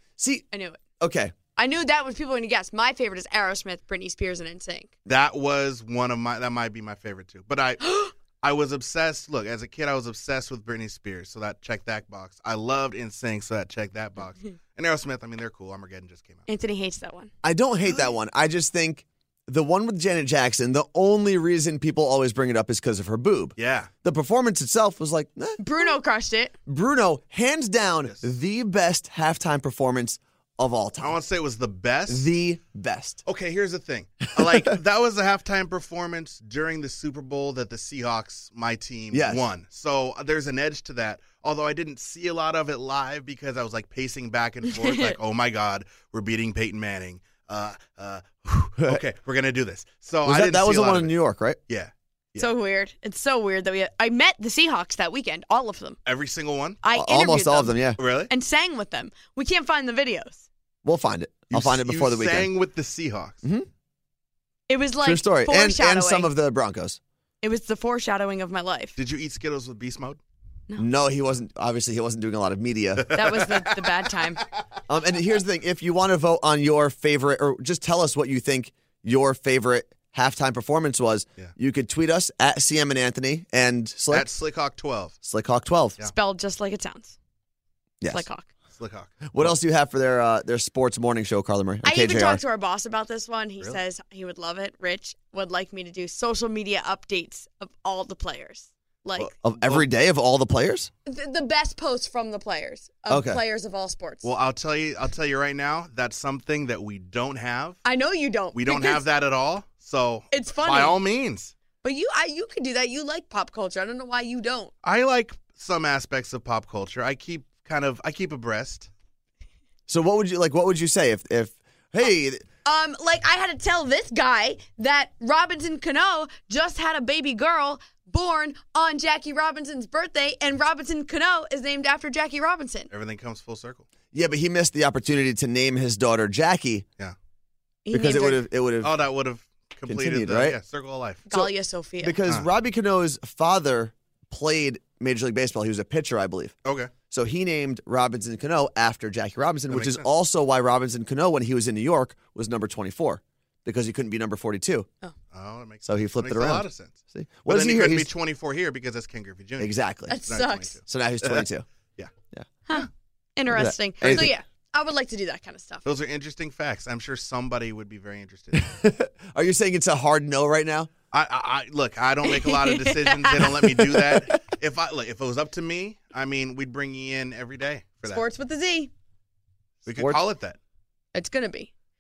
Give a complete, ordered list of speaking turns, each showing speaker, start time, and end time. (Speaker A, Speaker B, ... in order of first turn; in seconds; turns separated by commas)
Speaker A: 0.2-0.5, Speaker B: 0.5-0.8, Speaker A: 1.0-1.4, Speaker B: 1.6-4.9, Speaker C: 5.1-16.5, Speaker B: 7.8-8.1, Speaker B: 16.5-17.3, Speaker A: 17.4-25.9, Speaker C: 23.6-23.9, Speaker B: 25.6-26.5, Speaker A: 26.7-31.2, Speaker C: 31.0-32.3, Speaker A: 32.1-33.2, Speaker C: 33.3-51.1, Speaker A: 34.4-34.6, Speaker A: 39.1-39.5, Speaker B: 44.7-45.2, Speaker A: 48.8-49.0, Speaker A: 50.2-51.6, Speaker C: 51.7-52.5, Speaker B: 52.4-56.0, Speaker C: 56.1-56.8, Speaker B: 56.8-57.8, Speaker A: 56.9-58.0, Speaker C: 58.0-58.3, Speaker B: 58.3-60.5, Speaker A: 60.9-62.5, Speaker C: 61.5-63.4, Speaker B: 64.7-66.3, Speaker A: 65.0-67.0, Speaker B: 67.4-69.0, Speaker C: 69.0-70.2, Speaker A: 70.8-73.1, Speaker C: 73.0-73.9, Speaker B: 73.1-74.4, Speaker A: 74.9-84.3, Speaker C: 84.1-85.2, Speaker A: 85.2-86.0, Speaker B: 86.0-87.2, Speaker B: 88.1-88.5, Speaker C: 88.7-89.4, Speaker A: 89.3-92.4, Speaker B: 91.8-99.3, Speaker A: 99.2-100.9, Speaker C: 99.6-99.9, Speaker B: 101.1-104.3, Speaker A: 103.1-103.4, Speaker C: 104.2-107.8, Speaker B: 107.8-109.0, Speaker C: 108.5-111.5, Speaker B: 110.3-111.0, Speaker B: 111.8-114.7, Speaker C: 114.8-118.9, Speaker A: 119.9-122.4, Speaker B: 122.7-132.9, Speaker C: 132.9-133.9, Speaker A: 134.1-136.8, Speaker B: 137.9-138.4, Speaker A: 137.9-138.9, Speaker C: 138.8-141.3, Speaker A: 139.9-140.6, Speaker B: 141.3-142.2, Speaker A: 141.3-146.5, Speaker C: 146.7-146.9, Speaker A: 147.1-154.9, Speaker C: 149.7-150.1, Speaker C: 155.3-162.1, Speaker A: 155.9-158.1, Speaker A: 159.6-160.2, Speaker B: 160.1-160.8, Speaker A: 160.9-161.7, Speaker B: 162.7-165.8, Speaker A: 163.5-164.3, Speaker C: 164.0-164.3, Speaker C: 165.8-168.8, Speaker A: 168.6-170.9, Speaker C: 171.1-178.2, Speaker B: 172.2-174.0, Speaker B: 178.1-178.9, Speaker C: 179.8-180.6, Speaker A: 179.9-180.2, Speaker B: 181.1-181.7